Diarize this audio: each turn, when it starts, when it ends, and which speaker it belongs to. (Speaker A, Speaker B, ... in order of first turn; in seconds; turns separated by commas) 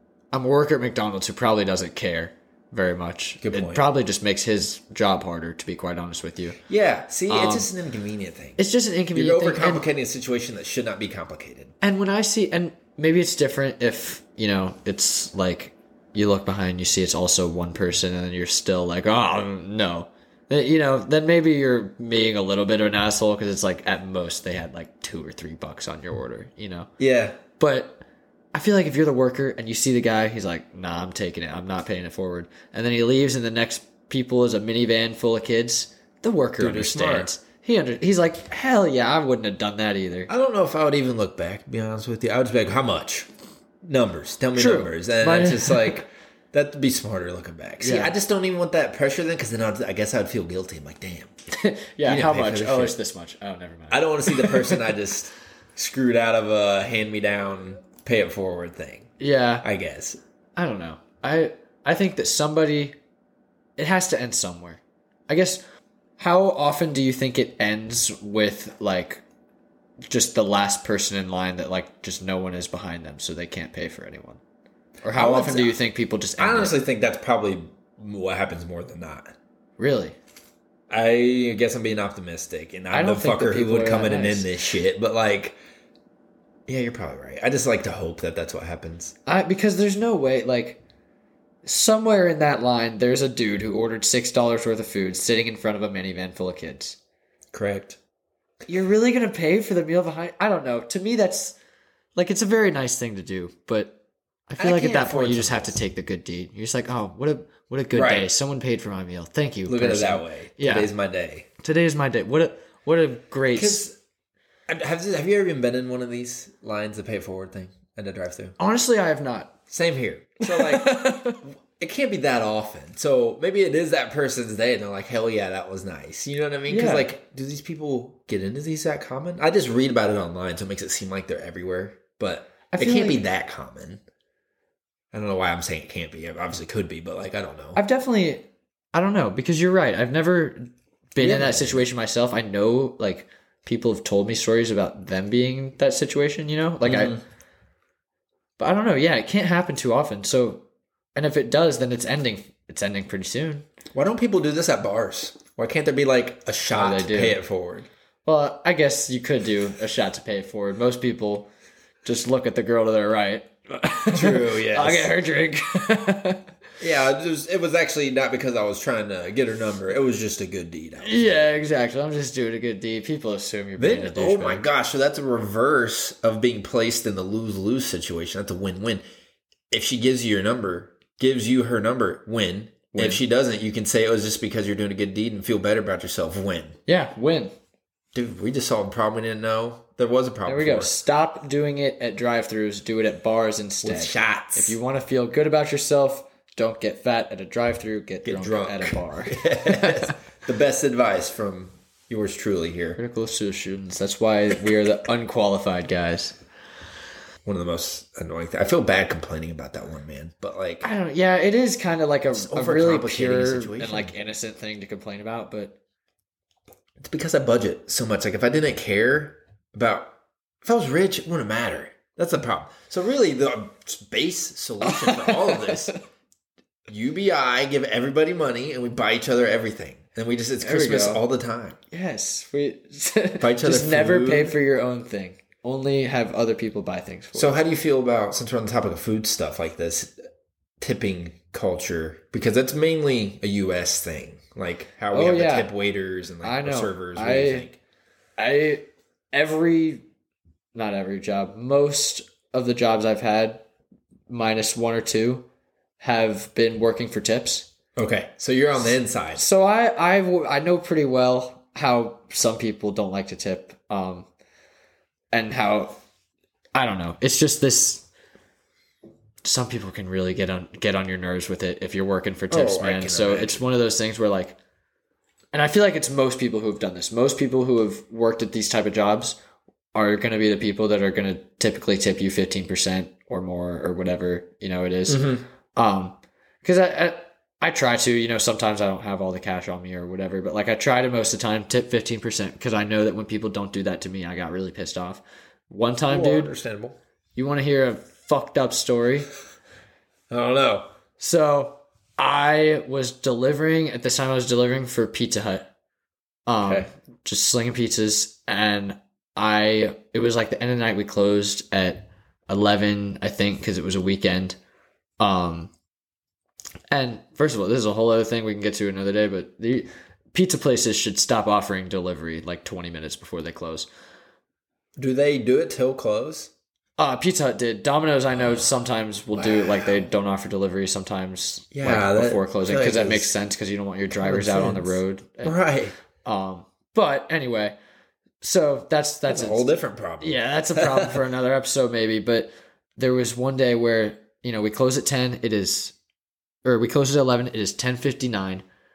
Speaker A: 0.3-6.6, Speaker B: 3.4-3.8, Speaker B: 6.6-8.6, Speaker A: 7.3-7.7, Speaker A: 8.6-9.9, Speaker B: 9.1-11.7, Speaker A: 11.8-26.9, Speaker B: 27.0-27.4, Speaker A: 27.6-28.0, Speaker A: 28.5-40.3, Speaker B: 36.6-37.3, Speaker B: 40.3-43.3, Speaker B: 43.8-51.3, Speaker A: 44.5-46.0, Speaker A: 47.8-48.1, Speaker A: 51.5-54.9, Speaker B: 52.0-53.0, Speaker B: 53.9-59.1, Speaker A: 59.2-59.6, Speaker B: 59.6-60.2, Speaker A: 60.5-62.9, Speaker A: 63.8-65.6, Speaker A: 66.2-69.2, Speaker A: 70.1-74.4, Speaker A: 75.0-76.8, Speaker B: 75.1-75.8, Speaker B: 76.4-79.3, Speaker A: 79.8-80.2, Speaker B: 80.9-85.6, Speaker A: 82.9-84.5, Speaker B: 86.7-89.1, Speaker A: 89.2-90.8, Speaker A: 91.6-97.0, Speaker B: 97.5-98.0, Speaker A: 98.7-101.6, Speaker A: 102.2-104.0, Speaker A: 104.5-110.9, Speaker B: 104.6-105.8, Speaker B: 107.9-108.3, Speaker B: 109.7-111.5, Speaker A: 111.6-113.8, Speaker B: 113.5-114.0, Speaker B: 114.7-118.5, Speaker A: 118.6-119.5, Speaker B: 119.7-134.0, Speaker A: 120.4-121.4, Speaker A: 126.7-127.1, Speaker A: 132.7-133.2, Speaker B: 135.1-137.8, Speaker A: 137.7-147.2, Speaker B: 141.2-141.8, Speaker B: 146.8-147.2, Speaker A: 148.6-153.7, Speaker B: 153.9-157.9, Speaker A: 156.7-157.4, Speaker A: 158.2-161.5, Speaker A: 162.0-166.5, Speaker B: 164.1-165.1, Speaker B: 166.8-171.5, Speaker A: 171.0-174.7, Speaker B: 173.8-179.0, Speaker B: 179.7-186.8, Speaker A: 182.9-183.2, Speaker A: 186.8-187.5, Speaker B: 188.1-190.9, Speaker A: 190.4-200.1, Speaker B: 193.8-194.8, Speaker B: 198.2-203.0, Speaker A: 203.0-206.3, Speaker B: 207.4-210.9, Speaker A: 210.8-215.8, Speaker B: 212.3-214.1, Speaker B: 217.0-225.9, Speaker A: 224.8-226.0, Speaker B: 226.9-231.8, Speaker A: 230.6-231.2, Speaker A: 231.9-237.6, Speaker B: 233.4-234.6, Speaker B: 237.3-240.2, Speaker B: 240.8-247.8, Speaker A: 245.1-245.7, Speaker A: 246.4-247.7, Speaker A: 248.4-250.0, Speaker A: 250.7-253.6, Speaker A: 254.3-255.5, Speaker A: 256.0-257.7, Speaker B: 257.9-259.4, Speaker A: 259.3-264.3, Speaker A: 265.3-265.9, Speaker A: 266.7-268.1, Speaker A: 269.4-274.6, Speaker B: 272.5-273.6, Speaker A: 275.5-279.4, Speaker A: 279.9-296.5, Speaker B: 285.1-285.4, Speaker B: 296.1-297.0, Speaker A: 297.4-299.3, Speaker B: 300.3-300.9, Speaker A: 301.2-305.7, Speaker A: 306.4-314.6, Speaker B: 306.6-306.9, Speaker A: 315.2-315.7, Speaker A: 316.9-323.9, Speaker B: 325.0-326.5, Speaker A: 327.0-335.6, Speaker B: 328.3-328.7, Speaker B: 329.3-330.1, Speaker B: 331.7-333.3, Speaker B: 334.1-335.9, Speaker A: 336.2-337.7, Speaker A: 338.4-345.9, Speaker B: 339.3-341.2, Speaker A: 346.6-348.6